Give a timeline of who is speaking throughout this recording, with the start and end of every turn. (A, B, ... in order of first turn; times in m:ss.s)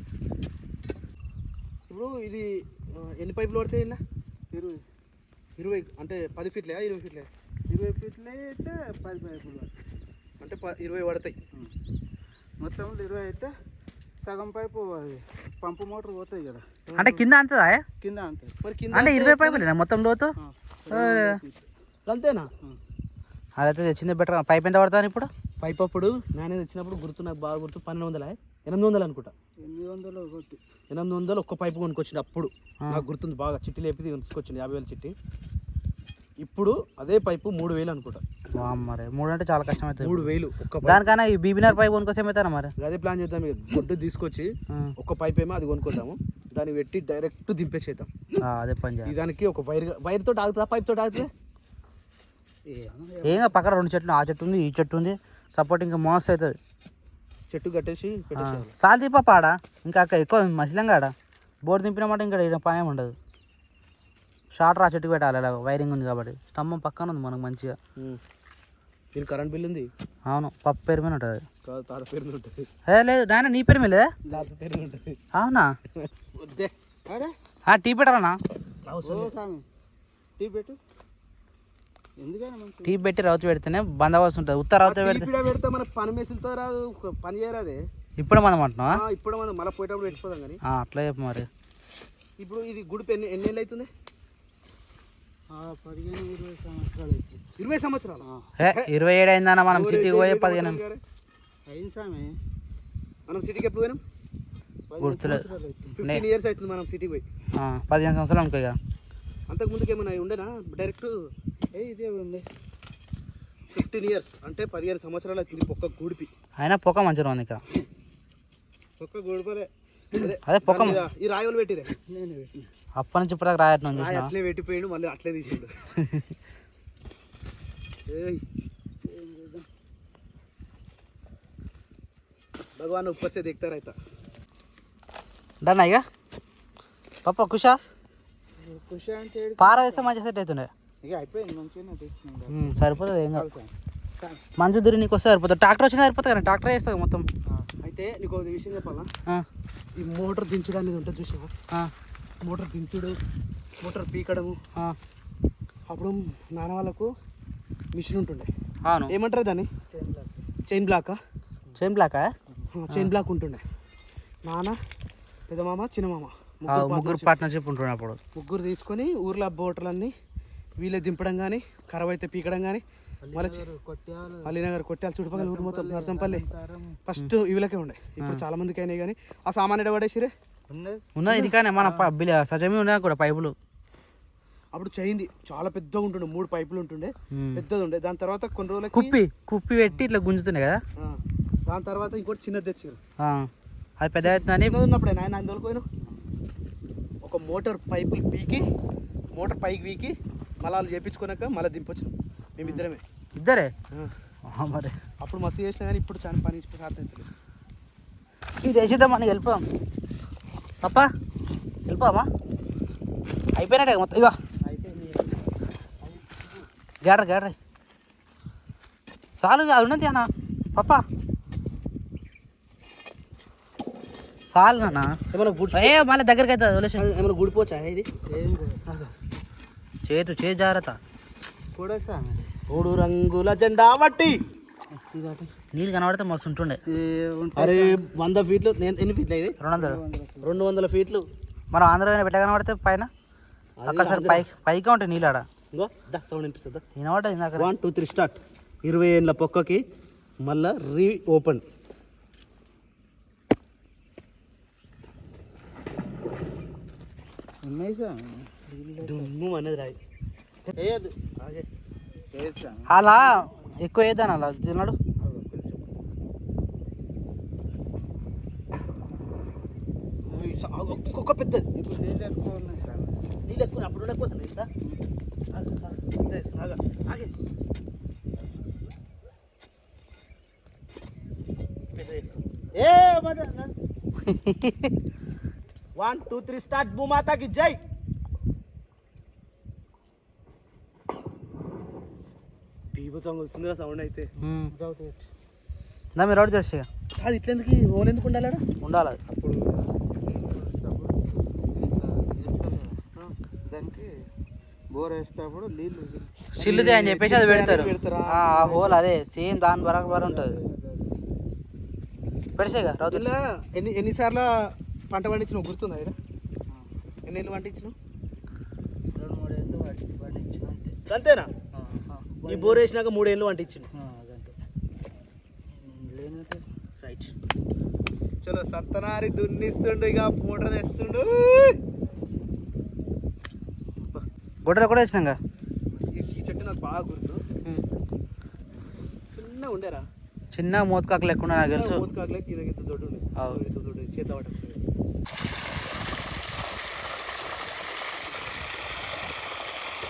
0:01.9-0:04.0 A
0:04.5-0:04.8 B
0:05.6-0:07.3 A
0:07.7-0:09.7 B
0:10.4-0:11.3 A
0:12.6-0:13.5 B
0:14.2-0:17.2 B
0:16.9-0:17.2 A
0:17.0-0:17.8 C
0:18.0-0:18.6 B
0:18.6-0:19.7 A
0:18.9-0:20.3 C
0:20.4-0:21.6 B
0:20.9-0:21.4 C
0:22.1-0:22.5 A
0:23.6-0:25.3 C
0:25.6-0:29.3 A
0:29.6-0:30.6 B
0:30.9-0:35.1 A
0:36.4-0:38.2 A
0:38.5-0:40.3 C
0:40.0-0:41.0 A
0:40.8-0:42.7 C
0:42.8-0:48.1 A
0:48.4-0:49.1 C
0:49.0-0:51.3 A
0:52.7-0:53.6 B
0:53.2-0:56.6 C
0:57.5-0:58.7 A
0:58.4-1:01.1 C
1:01.6-1:03.2 C
1:04.5-1:07.8 C
1:09.1-1:09.9 A
1:10.3-1:11.4 C
1:11.6-1:12.7 A
1:12.9-1:14.1 C
1:14.3-1:15.2 A
1:15.3-1:15.7 C
1:16.0-1:16.7 A
1:17.1-1:17.3 B
1:17.7-1:18.4 C
1:18.8-1:19.3 A
1:19.0-1:19.6 B
1:20.4-1:20.8 B
1:22.2-1:23.0 B
1:22.8-1:25.3 C
1:24.8-1:27.8 A
1:28.2-1:29.0 C
1:28.9-1:30.6 A
1:30.6-1:31.5 C
1:32.4-1:33.9 A
1:35.5-1:37.4 B
1:37.6-1:38.9 A
1:38.2-1:38.5 B
1:38.6-1:40.8 C
1:39.7-1:41.0 A
1:41.7-1:42.4 B
1:43.3-1:44.0 A
1:44.9-1:45.9 B
1:45.0-1:45.5 C
1:46.0-1:47.2 A
1:47.6-1:48.8 C
1:49.5-1:51.1 A
1:51.7-1:52.5 B
1:53.7-1:56.3 A
1:56.6-1:57.6 C
1:59.0-1:59.7 B
2:00.1-2:02.0 A
2:00.4-2:01.0 C
2:02.1-2:02.7 B
2:03.0-2:04.3 C
2:03.9-2:05.7 A
2:06.0-2:06.3 C
2:08.1-2:08.4 A
2:09.0-2:09.6 B
2:12.8-2:13.9 A
2:15.6-2:16.0 C
2:17.2-2:17.9 C
2:18.6-2:20.1 B
2:19.6-2:20.7 C
2:21.0-2:23.7 B
2:22.5-2:23.5 C
2:24.6-2:27.2 C
2:27.8-2:29.1 A
2:30.0-2:31.5 A
2:32.4-2:33.2 A
2:33.8-2:34.6 A
2:35.9-2:37.1 A
2:37.9-2:38.5 A
2:38.8-2:39.1 C
2:39.1-2:39.7 A
2:39.9-2:40.4 B
2:40.7-2:41.2 A
2:41.8-2:42.3 C
2:42.7-2:43.6 A
2:44.4-2:44.8 A
2:45.5-2:47.3 A
2:46.7-2:48.2 C
2:48.3-2:50.1 A
2:50.8-2:53.6 A
2:53.2-2:54.5 B
2:54.4-2:56.4 A
2:55.3-2:57.0 B
2:57.0-3:00.3 A
3:00.7-3:02.1 B
3:01.2-3:03.5 C
3:04.7-3:09.2 A
3:07.3-3:07.6 C
3:08.9-3:10.8 C
3:11.0-3:13.0 A
3:13.2-3:13.5 C
3:14.0-3:14.7 C
3:14.2-3:15.8 A
3:17.2-3:18.6 A
3:19.3-3:23.0 A
3:23.4-3:23.7 C
3:24.5-3:24.9 C
3:25.2-3:27.3 A
3:28.6-3:29.6 C
3:30.8-3:31.1 C
3:31.9-3:32.3 C
3:33.6-3:34.4 C
3:34.6-3:35.4 B
3:36.0-3:36.5 B
3:37.0-3:37.6 C
3:39.4-3:41.0 C
3:44.5-3:45.2 C
3:45.3-3:46.0 A
3:45.7-3:47.0 C
3:46.9-3:48.1 A
3:48.3-3:48.8 B
3:50.0-3:51.0 C
3:51.7-3:52.5 B
3:52.7-3:54.4 A
3:54.9-3:55.5 B
3:55.7-3:56.8 C
3:56.9-3:58.0 B
3:57.6-3:59.6 A
3:59.6-4:00.0 C
3:59.8-4:00.6 B
4:00.4-4:01.2 A
4:01.7-4:03.1 C
4:03.8-4:04.5 A
4:03.8-4:05.4 C
4:05.7-4:06.8 A
4:07.0-4:07.7 C
4:07.6-4:09.8 A
4:10.4-4:11.6 A
4:17.6-4:19.3 B
4:19.0-4:20.0 A
4:20.7-4:21.2 B
4:21.4-4:21.6 A
4:22.3-4:22.9 B
4:22.9-4:25.0 C
4:25.2-4:25.5 B
4:30.2-4:31.8 A
4:31.8-4:33.2 B
4:33.4-4:34.7 A
4:35.5-4:37.3 A
4:41.9-4:42.4 A
4:42.8-4:43.7 B
4:44.2-4:44.9 C
4:46.0-4:47.8 A
4:52.9-4:54.3 A
4:54.4-4:54.7 C
4:54.7-4:55.2 B
4:56.2-4:56.9 C
4:57.2-4:58.6 A
4:58.8-4:59.2 C
4:59.3-5:03.1 B
5:03.7-5:04.2 B
5:04.9-5:06.3 B
5:06.5-5:10.6 C
5:06.6-5:09.0 A
5:10.1-5:11.2 B
5:12.6-5:13.3 C
5:13.1-5:16.1 A
5:17.2-5:17.9 A
5:19.1-5:21.0 B
5:21.1-5:21.5 A
5:22.2-5:22.9 B
5:22.4-5:23.9 A
5:23.9-5:24.5 B
5:25.7-5:26.6 B
5:28.4-5:31.8 A
5:34.6-5:35.4 C
5:36.1-5:37.4 A
5:39.3-5:40.0 A
5:40.5-5:42.1 C
5:41.4-5:44.8 A